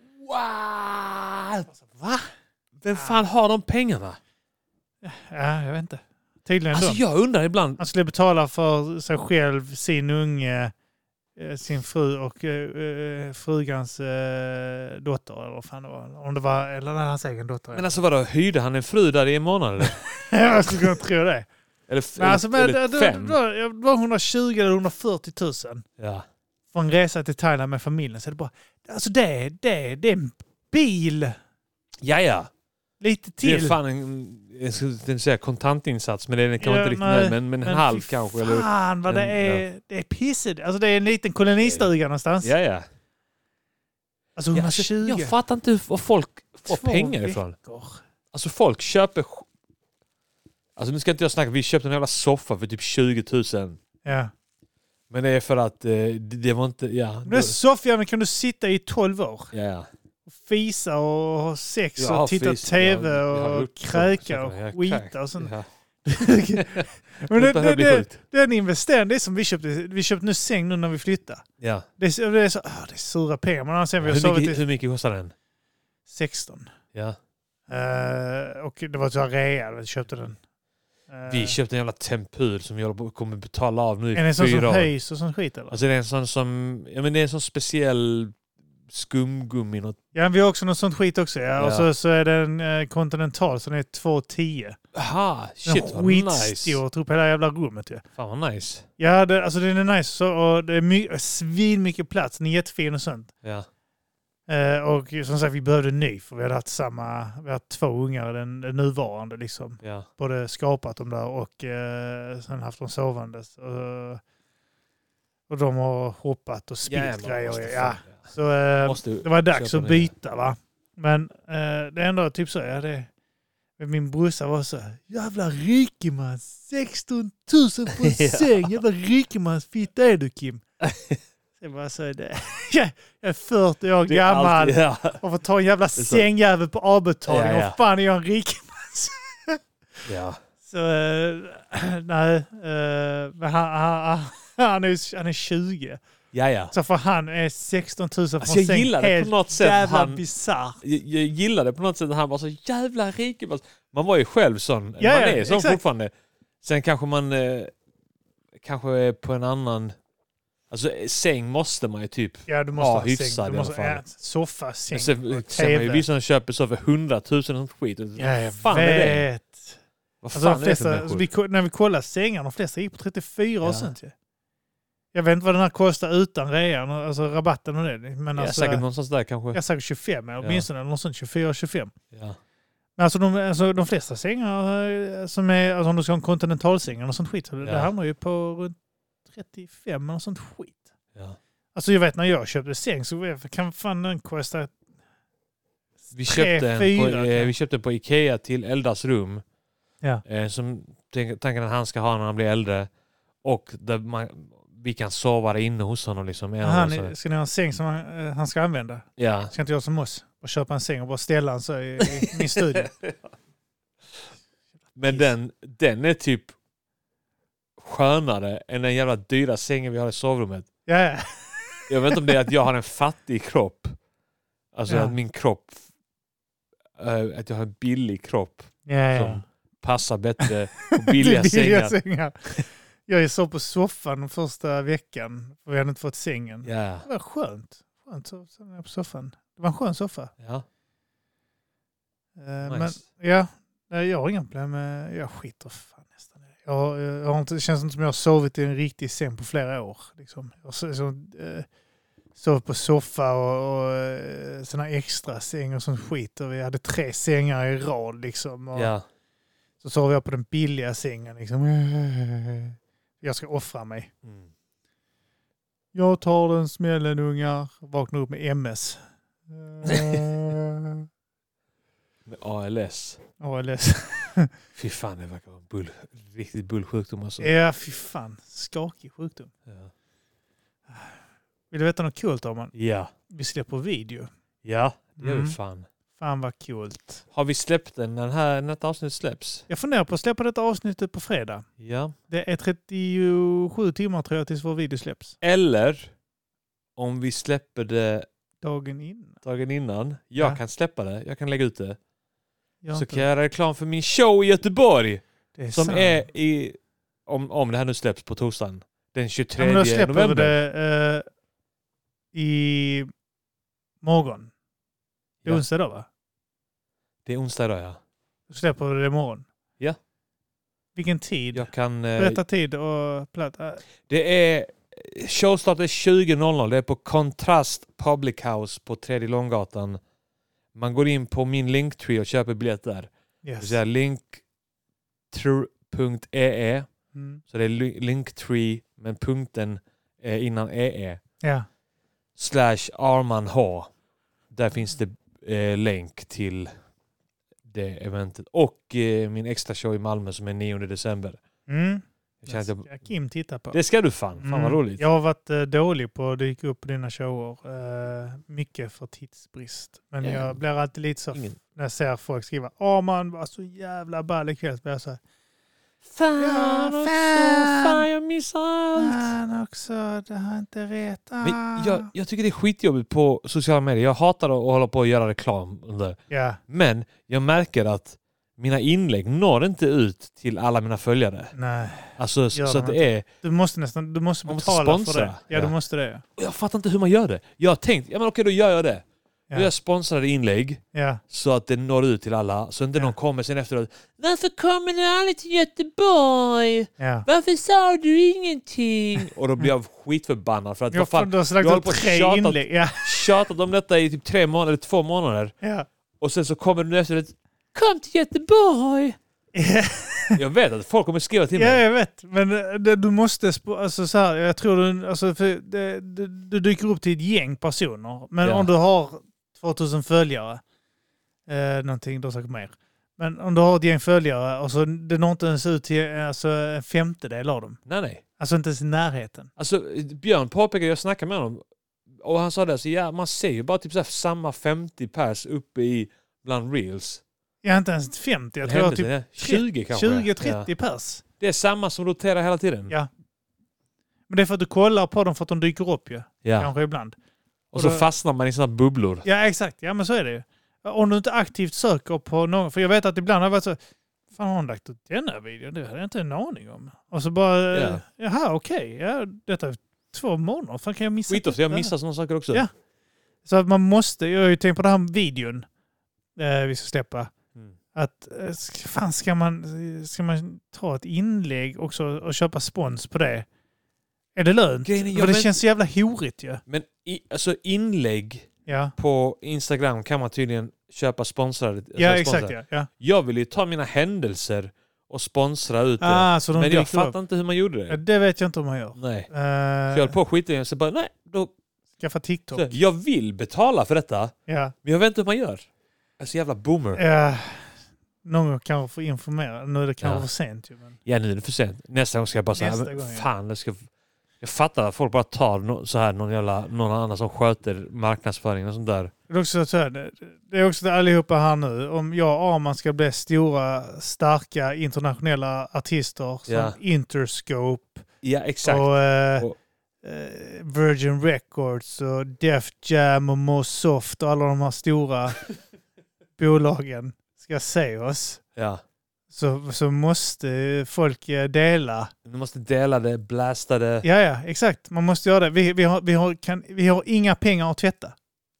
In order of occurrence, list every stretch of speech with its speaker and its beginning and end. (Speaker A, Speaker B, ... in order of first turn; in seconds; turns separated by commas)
Speaker A: 0.2-1.7, Speaker B: 1.7-2.3, Speaker A: 2.8-4.2, Speaker B: 2.9-3.2, Speaker B: 5.0-7.0, Speaker A: 6.7-7.8, Speaker B: 7.8-10.7, Speaker B: 11.3-17.9, Speaker A: 17.7-20.0, Speaker B: 19.9-21.5, Speaker A: 21.9-23.4, Speaker B: 22.2-25.8, Speaker A: 26.0-26.2, Speaker B: 26.7-31.4, Speaker A: 32.0-32.5, Speaker B: 33.0-33.8, Speaker A: 33.4-39.6, Speaker B: 36.6-42.5, Speaker A: 41.6-41.9, Speaker A: 42.4-42.9, Speaker B: 44.4-45.3, Speaker A: 44.5-47.5, Speaker B: 46.7-48.0, Speaker A: 48.3-49.5, Speaker A: 50.8-53.8, Speaker B: 54.0-54.3, Speaker A: 55.1-57.6, Speaker B: 57.2-59.5, Speaker A: 59.5-59.9, Speaker B: 60.3-65.5, Speaker A: 62.0-65.7, Speaker B: 66.0-71.4, Speaker A: 66.5-68.2, Speaker A: 71.6-71.9, Speaker B: 72.0-74.6, Speaker A: 74.0-75.3, Speaker B: 76.1-76.7, Speaker B: 77.7-80.4, Speaker B: 81.1-81.6, Speaker A: 81.3-84.9, Speaker B: 84.1-85.8, Speaker A: 85.7-88.3, Speaker A: 88.9-90.0, Speaker B: 90.1-94.8, Speaker A: 91.6-91.9, Speaker A: 94.9-96.8, Speaker B: 95.6-98.0, Speaker A: 98.2-98.9, Speaker B: 99.0-103.3, Speaker B: 104.5-114.2, Speaker A: 109.8-110.1, Speaker B: 115.5-123.1, Speaker A: 116.8-120.1, Speaker B: 123.8-130.6, Speaker A: 127.9-128.8, Speaker A: 130.8-131.2, Speaker B: 131.6-139.6, Speaker A: 134.1-135.2, Speaker A: 135.9-136.2, Speaker A: 137.3-137.8, Speaker A: 140.0-140.4, Speaker B: 140.7-146.0, Speaker A: 146.3-146.7, Speaker B: 146.7-150.8, Speaker A: 148.4-150.2, Speaker A: 150.8-157.7, Speaker B: 155.0-155.8, Speaker A: 158.6-159.9, Speaker A: 160.7-164.0, Speaker B: 162.5-166.0, Speaker A: 164.9-169.2, Speaker B: 168.2-169.8, Speaker A: 170.2-171.2, Speaker B: 170.3-174.1, Speaker A: 173.6-173.9, Speaker B: 175.1-178.8, Speaker A: 178.3-179.6, Speaker B: 179.5-181.9, Speaker A: 180.4-180.7, Speaker A: 182.1-182.4, Speaker B: 183.0-188.8, Speaker A: 187.6-187.9, Speaker B: 189.3-190.8, Speaker B: 191.7-194.7, Speaker A: 196.1-199.4, Speaker B: 196.2-197.5, Speaker A: 200.2-202.9, Speaker A: 203.4-207.1, Speaker B: 206.6-212.9, Speaker A: 209.2-209.5, Speaker A: 212.0-213.2, Speaker A: 214.9-216.5, Speaker A: 217.8-220.7, Speaker B: 220.8-222.3, Speaker A: 221.9-223.9, Speaker A: 224.7-225.8, Speaker B: 224.9-225.2, Speaker A: 227.0-231.9, Speaker B: 228.8-229.4, Speaker B: 230.4-240.3, Speaker A: 236.6-237.1, Speaker A: 240.4-240.6, Speaker B: 242.4-251.7, Speaker A: 242.6-243.0, Speaker B: 252.3-258.9, Speaker A: 258.7-259.0, Speaker B: 259.8-264.1, Speaker A: 264.2-264.5, Speaker B: 265.9-271.1, Speaker A: 269.8-270.3, Speaker A: 272.2-273.2, Speaker B: 273.4-274.5, Speaker A: 274.7-277.5, Speaker B: 277.4-279.5, Speaker B: 280.9-281.1, Speaker B: 281.7-282.7, Speaker A: 282.7-283.1, Speaker B: 283.3-284.3, Speaker A: 284.6-285.9, Speaker B: 285.2-285.6, Speaker B: 286.2-287.2, Speaker A: 287.3-289.6, Speaker B: 289.7-291.6, Speaker A: 291.8-292.1, Speaker B: 292.3-295.4, Speaker A: 295.4-296.1, Speaker A: 297.0-298.3, Speaker B: 298.6-299.4, Speaker A: 299.4-302.0, Speaker B: 302.8-303.2, Speaker A: 302.9-310.6, Speaker B: 305.6-306.2, Speaker B: 309.6-311.2, Speaker B: 312.3-313.1, Speaker B: 314.0-314.5, Speaker B: 315.4-316.1, Speaker A: 317.2-318.0, Speaker B: 318.5-319.4, Speaker B: 320.9-323.8, Speaker A: 321.5-322.4, Speaker A: 324.0-330.0, Speaker A: 330.7-334.4, Speaker B: 333.4-333.8, Speaker A: 335.3-336.9, Speaker B: 337.1-337.4, Speaker A: 337.5-341.2, Speaker B: 341.4-341.7, Speaker A: 342.4-343.9, Speaker A: 344.5-346.7, Speaker A: 347.7-351.4, Speaker B: 351.7-353.8, Speaker A: 352.4-352.9, Speaker A: 353.7-355.0, Speaker B: 354.4-365.2, Speaker A: 360.2-360.5, Speaker A: 366.0-369.3, Speaker B: 366.4-368.0, Speaker B: 368.9-372.1, Speaker A: 371.4-381.5, Speaker B: 376.3-376.6, Speaker B: 381.5-386.2, Speaker A: 382.1-383.2, Speaker A: 384.5-385.7, Speaker A: 386.4-405.5, Speaker B: 390.9-391.2, Speaker B: 397.0-397.2, Speaker B: 400.9-403.2, Speaker B: 405.6-405.9, Speaker A: 406.2-409.2, Speaker B: 409.5-410.4, Speaker A: 410.3-411.8, Speaker B: 411.5-420.6, Speaker A: 418.4-418.7, Speaker B: 421.5-427.8, Speaker A: 427.9-428.2, Speaker B: 428.4-429.5, Speaker A: 429.6-431.6, Speaker A: 432.2-437.2, Speaker B: 437.6-441.2, Speaker A: 438.6-440.7, Speaker A: 441.4-442.9, Speaker B: 444.3-447.1, Speaker A: 446.4-446.7, Speaker B: 447.7-448.0, Speaker A: 447.7-449.2, Speaker B: 449.2-453.8, Speaker B: 454.3-461.9, Speaker A: 457.7-458.0, Speaker A: 461.3-462.6, Speaker B: 463.4-465.6, Speaker B: 466.4-467.3, Speaker B: 467.9-473.5, Speaker B: 474.3-476.6, Speaker A: 474.8-475.5, Speaker A: 476.7-488.0, Speaker B: 478.6-478.9, Speaker B: 482.0-482.9, Speaker B: 486.0-487.1, Speaker B: 487.9-490.1, Speaker A: 488.9-489.3, Speaker A: 489.9-491.5, Speaker B: 492.0-492.7, Speaker A: 492.5-495.7, Speaker B: 494.5-494.7, Speaker A: 496.2-497.0, Speaker B: 496.9-500.9, Speaker A: 501.0-503.9, Speaker B: 502.5-503.3, Speaker A: 504.4-509.1, Speaker B: 509.3-518.0, Speaker A: 516.5-516.8, Speaker A: 518.2-519.5, Speaker B: 518.6-519.5, Speaker B: 520.0-525.4, Speaker B: 526.4-528.4, Speaker A: 528.5-528.8, Speaker B: 529.3-532.1, Speaker A: 532.2-534.0, Speaker B: 534.0-538.1